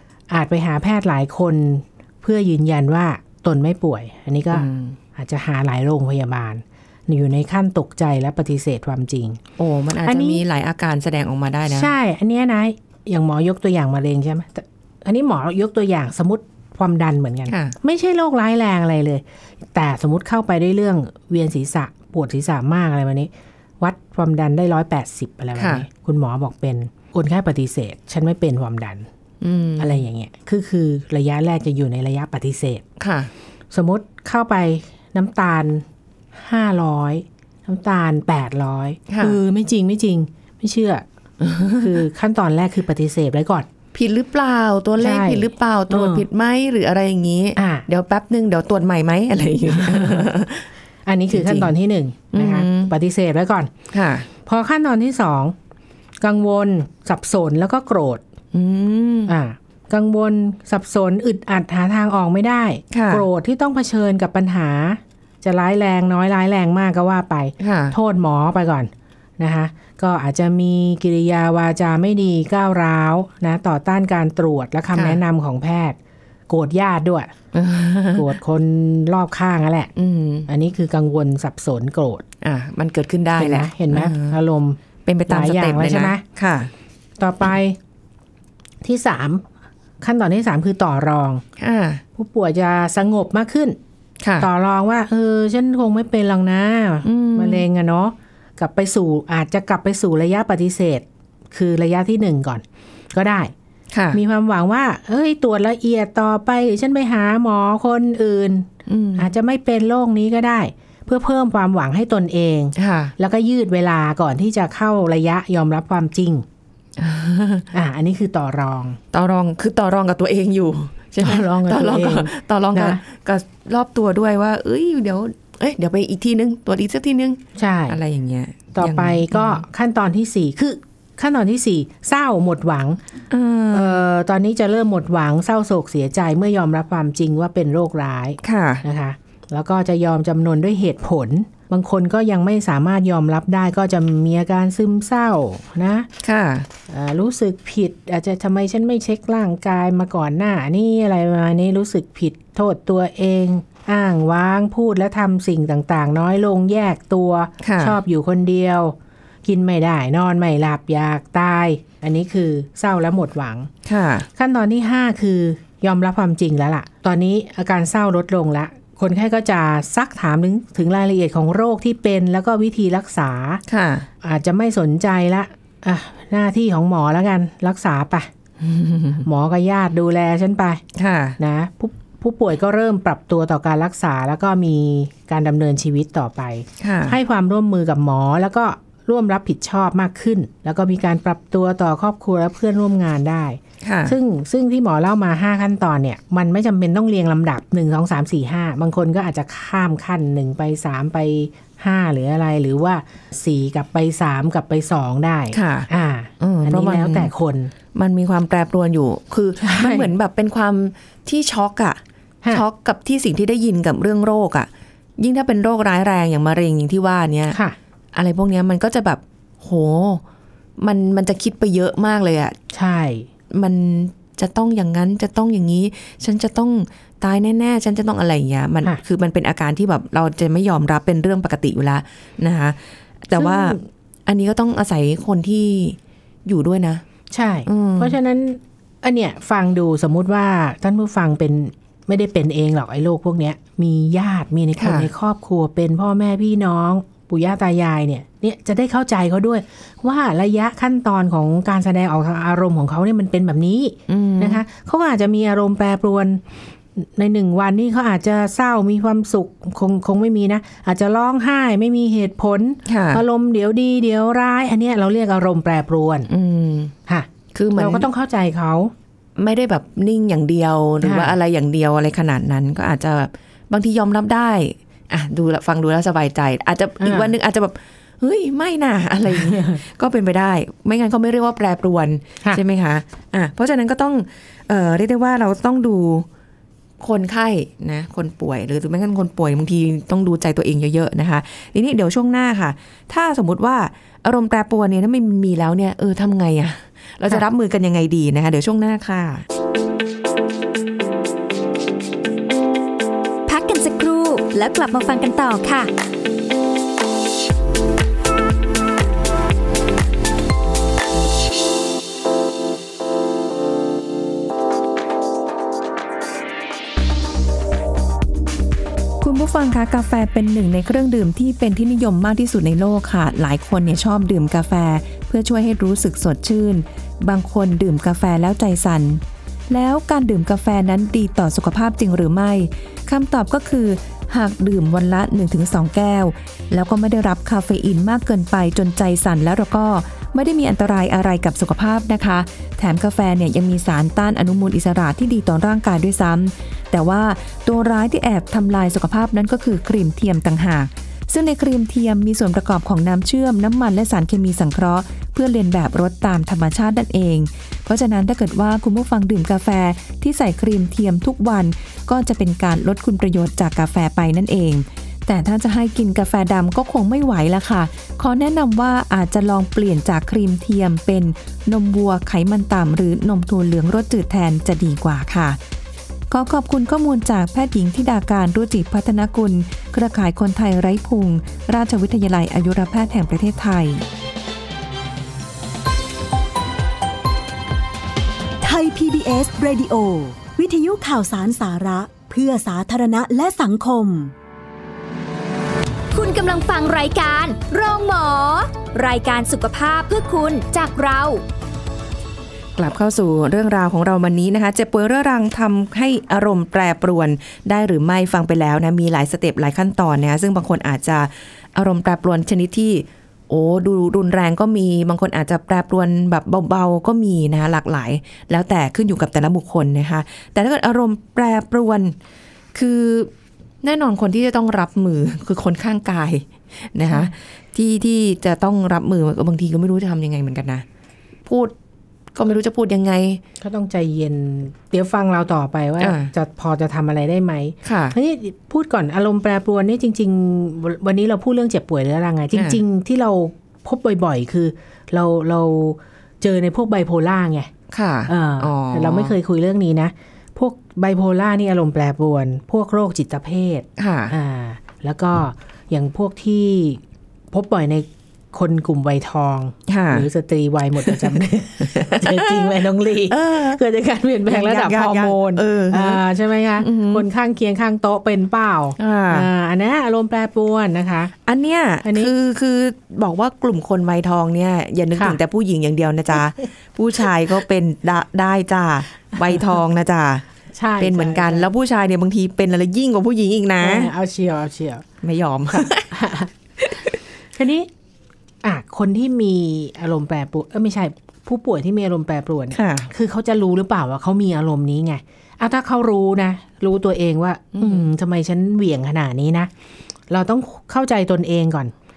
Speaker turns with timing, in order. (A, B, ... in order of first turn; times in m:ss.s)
0:00.3-0:09.4 A
0:04.5-0:05.0 B
0:09.6-0:11.9 B
0:10.0-0:10.4 A
0:11.7-0:19.2 A
0:17.5-0:17.8 B
0:19.7-0:29.1 A
0:25.6-0:25.9 B
0:29.4-0:30.0 B
0:29.8-0:32.8 A
0:33.0-0:33.3 B
0:33.7-0:41.0 A
0:39.1-0:39.4 B
0:41.4-0:42.0 B
0:41.8-0:43.7 A
0:43.9-0:50.7 B
0:45.0-0:46.3 A
0:47.6-0:47.9 A
0:49.7-0:50.3 A
0:51.1-0:53.7 A
0:51.3-0:51.7 B
0:52.3-0:52.9 B
0:53.9-0:54.3 B
0:54.4-0:55.6 A
0:56.2-0:58.2 A
0:58.5-0:59.4 B
0:59.3-1:16.0 A
1:02.9-1:03.3 B
1:07.6-1:08.0 B
1:14.9-1:15.2 B
1:16.5-1:17.3 A
1:17.5-1:18.3 B
1:18.2-1:19.9 A
1:20.0-1:20.5 B
1:20.5-1:22.2 A
1:22.4-1:24.4 B
1:23.4-1:26.2 A
1:25.1-1:26.7 B
1:27.2-1:27.8 A
1:28.8-1:29.4 A
1:30.0-1:31.4 A
1:31.6-1:32.0 B
1:32.2-1:33.8 A
1:34.2-1:34.5 B
1:34.4-1:43.5 A
1:37.0-1:37.6 B
1:43.9-1:44.2 B
1:44.1-1:56.4 A
1:48.9-1:49.3 B
1:52.8-1:53.1 B
1:57.0-1:57.7 B
1:57.7-1:59.0 A
1:59.1-2:09.6 B
2:01.2-2:03.0 A
2:07.6-2:08.0 A
2:08.7-2:13.0 A
2:13.3-2:14.0 B
2:13.7-2:26.1 A
2:18.4-2:18.8 B
2:26.2-2:26.7 B
2:26.9-2:43.7 A
2:37.6-2:38.0 B
2:43.9-2:44.3 B
2:44.4-2:53.6 A
2:53.7-2:54.1 B
2:54.2-2:58.3 A
2:58.6-2:59.3 B
2:59.2-3:00.8 A
3:01.0-3:01.4 B
3:01.4-3:27.7 A
3:06.8-3:07.2 B
3:13.8-3:14.2 B
3:25.5-3:25.9 B
3:26.4-3:27.3 B
3:27.9-3:32.0 B
3:29.6-3:30.1 A
3:32.5-3:37.6 B
3:38.1-3:40.2 B
3:40.8-3:42.6 B
3:42.7-3:43.3 A
3:43.5-3:57.0 B
3:53.4-3:53.8 A
3:57.3-4:16.4 A
3:57.7-3:58.2 B
4:04.8-4:05.1 B
4:14.1-4:14.6 B
4:17.0-4:26.3 A
4:22.9-4:23.2 B
4:26.3-4:26.9 B
4:27.1-4:28.9 A
4:27.5-4:28.1 B
4:29.4-4:46.3 B
4:31.0-4:31.4 A
4:37.0-4:37.3 A
4:39.3-4:39.8 A
4:47.0-4:59.4 B
5:03.5-5:05.9 C
5:19.2-6:15.6 B
6:16.3-6:24.0 B
6:28.6-6:34.3 D
6:36.1-6:41.4 C
6:42.8-7:02.2 B
7:02.7-7:03.3 B
7:03.8-7:10.8 B
7:11.5-7:11.7 B
7:12.4-7:13.4 B
7:13.6-7:27.7 A
7:16.0-7:16.3 B
7:17.8-7:18.2 B
7:22.5-7:22.8 B
7:27.9-7:29.4 B
7:28.3-7:51.3 A
7:34.0-7:34.3 B
7:39.9-7:40.3 B
7:41.0-7:41.3 B
7:41.8-7:43.8 B
7:44.5-7:46.2 B
7:46.8-7:47.2 B
7:49.0-7:49.5 B
7:51.5-8:00.4 B
7:52.0-7:52.3 A
8:00.7-8:01.7 A
8:01.0-8:04.1 B
8:03.8-8:05.0 A
8:05.2-8:06.2 B
8:05.7-8:06.5 A
8:06.8-8:07.2 B
8:07.6-8:07.9 A
8:08.6-8:19.7 A
8:12.7-8:13.1 B
8:17.7-8:18.1 B
8:20.3-8:21.9 A